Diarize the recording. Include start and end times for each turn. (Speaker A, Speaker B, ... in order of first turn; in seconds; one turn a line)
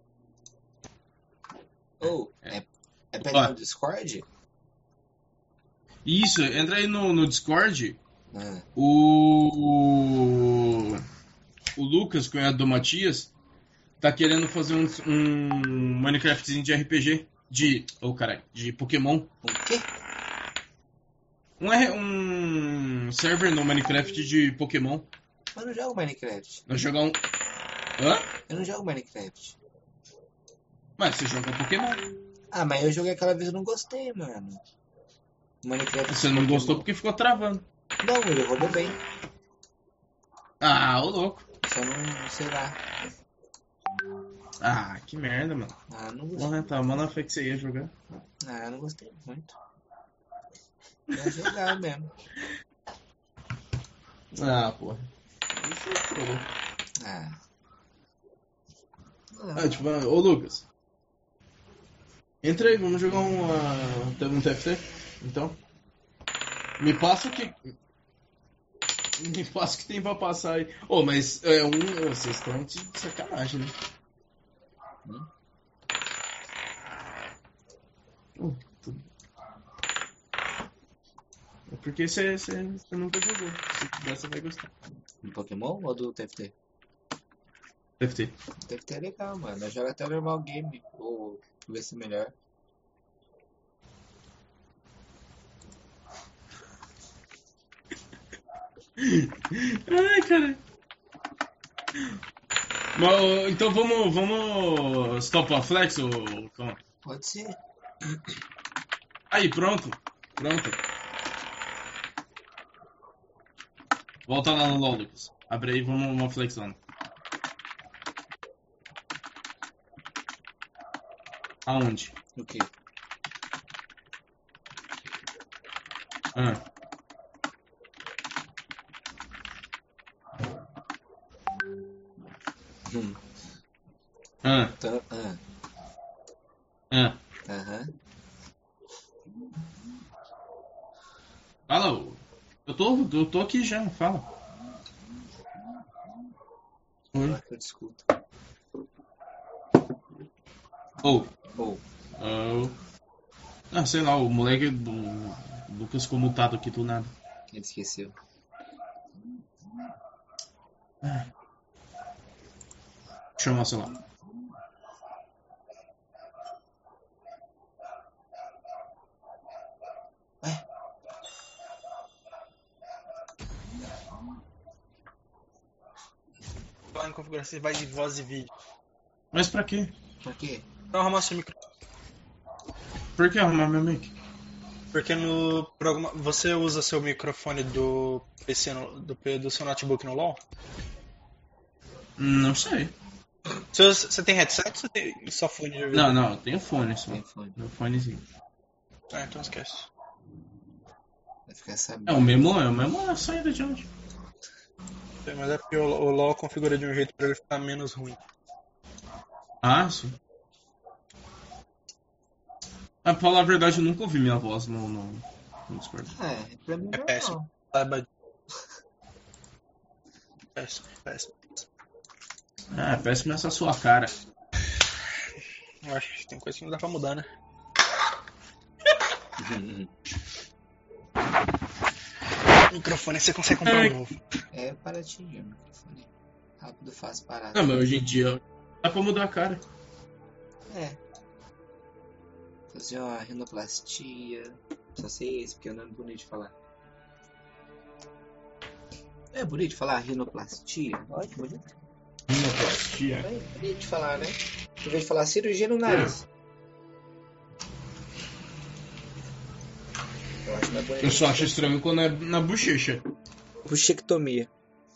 Speaker A: 2.0-2.5
Speaker B: 2.0-4.2
Speaker A: 3.2-3.5
Speaker A: 6.0-8.0
Speaker B: 8.3-8.7
Speaker A: 8.8-11.0
Speaker A: 11.8-13.3
Speaker A: 14.0-19.3
Speaker B: 19.4-19.9
Speaker A: 21.6-25.1
Speaker B: 25.5-26.6
Speaker A: 26.7-27.2
Speaker A: 28.0-28.3
Speaker B: 28.5-29.6
Speaker A: 31.0-32.0
Speaker B: 32.5-34.6
Speaker B: 35.6-36.9
Speaker A: 36.1-37.6
Speaker B: 38.0-39.0
Speaker A: 40.6-41.4
Speaker B: 41.6-42.9
Speaker A: 44.6-45.8
Speaker B: 45.9-46.7
Speaker A: 46.4-48.0
Speaker B: 48.4-49.5
Speaker B: 51.1-52.1
Speaker A: 51.1-51.4
Speaker A: 54.3-56.5
Speaker B: 57.0-57.4
Speaker B: 59.3-59.8
Speaker A: 59.5-60.6
Speaker A: 62.4-65.6
Speaker A: 66.8-67.7
Speaker A: 69.2-73.7
Speaker A: 78.4-79.0
Speaker A: 81.7-84.7
Speaker B: 85.2-86.5
Speaker A: 88.0-88.3
Speaker B: 88.7-92.3
Speaker A: 99.0-100.6
Speaker A: 102.9-106.8
Speaker B: 107.0-107.6
Speaker A: 109.3-110.8
Speaker A: 114.3-116.8
Speaker A: 121.7-122.1
Speaker B: 122.3-122.7
Speaker A: 126.3-126.6
Speaker B: 132.9-133.2
Speaker A: 134.4-134.7
Speaker B: 134.8-135.4
Speaker A: 136.9-137.2
Speaker B: 137.4-137.9
Speaker A: 141.7-144.3
Speaker B: 147.2-148.1
Speaker A: 151.0-151.3
Speaker B: 151.6-151.8
Speaker A: 152.2-152.8
Speaker A: 153.7-157.1
Speaker B: 157.5-158.2
Speaker A: 161.0-161.3
Speaker A: 163.4-163.9
Speaker C: 176.9-178.5
Speaker A: 179.3-179.9
Speaker B: 180.2-180.7
Speaker C: 180.9-181.6
Speaker A: 183.2-184.1
Speaker C: 184.9-190.4
Speaker A: 192.2-192.9
Speaker C: 193.7-196.2
Speaker A: 195.9-198.2
Speaker B: 197.1-197.6
Speaker C: 199.1-199.9
Speaker B: 201.5-202.5
Speaker A: 202.1-203.9
Speaker C: 205.2-208.2
Speaker A: 209.6-210.2
Speaker A: 213.0-216.1
Speaker B: 216.1-217.5
Speaker C: 216.9-218.1
Speaker C: 220.5-221.6
Speaker A: 222.7-224.1
Speaker C: 225.8-227.3
Speaker B: 229.4-229.9
Speaker C: 232.7-234.2
Speaker A: 233.6-233.9
Speaker B: 234.5-237.9
Speaker A: 237.5-239.6
Speaker B: 240.7-241.0
Speaker B: 242.7-246.5
Speaker B: 249.3-251.6
Speaker A: 252.3-253.2
Speaker B: 253.2-256.2
Speaker A: 255.8-256.1
Speaker B: 260.4-261.7
Speaker A: 261.0-263.0
Speaker B: 263.6-264.5